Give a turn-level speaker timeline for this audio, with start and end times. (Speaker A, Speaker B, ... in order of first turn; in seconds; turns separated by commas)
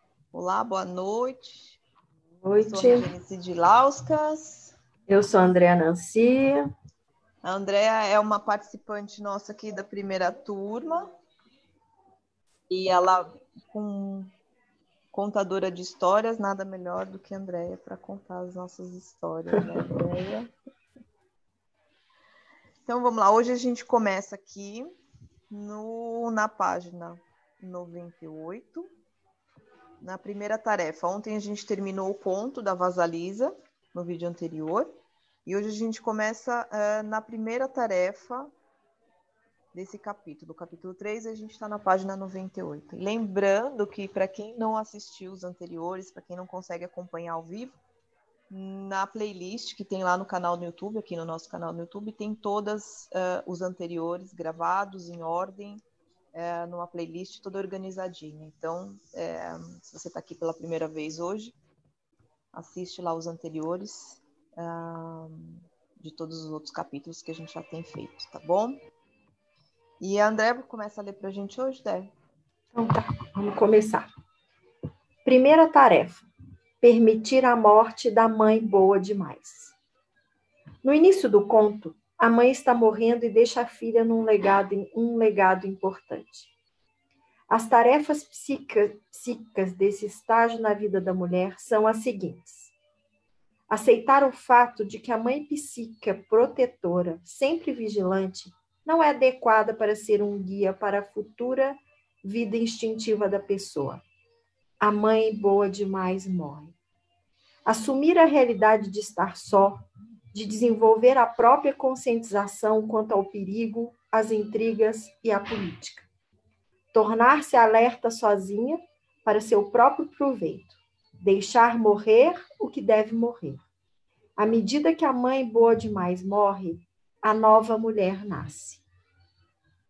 Speaker A: 0.3-1.8, Speaker B: 2.4-3.1, Speaker A: 2.5-4.7, Speaker B: 5.1-6.6, Speaker A: 7.4-11.1, Speaker A: 12.7-14.3, Speaker A: 15.1-20.5, Speaker A: 22.9-24.9, Speaker A: 25.5-28.9, Speaker A: 30.0-34.9, Speaker A: 35.5-38.5, Speaker A: 39.7-47.8, Speaker A: 48.5-61.6, Speaker A: 62.5-68.8, Speaker A: 70.0-72.1, Speaker B: 72.7-74.1, Speaker B: 75.2-76.3, Speaker B: 76.8-79.7, Speaker B: 80.8-86.5, Speaker B: 87.5-92.7, Speaker B: 93.7-104.0, Speaker B: 104.8-106.7, Speaker B: 107.7-109.8, Speaker B: 110.3-116.1, Speaker B: 116.9-123.6, Speaker B: 124.4-128.8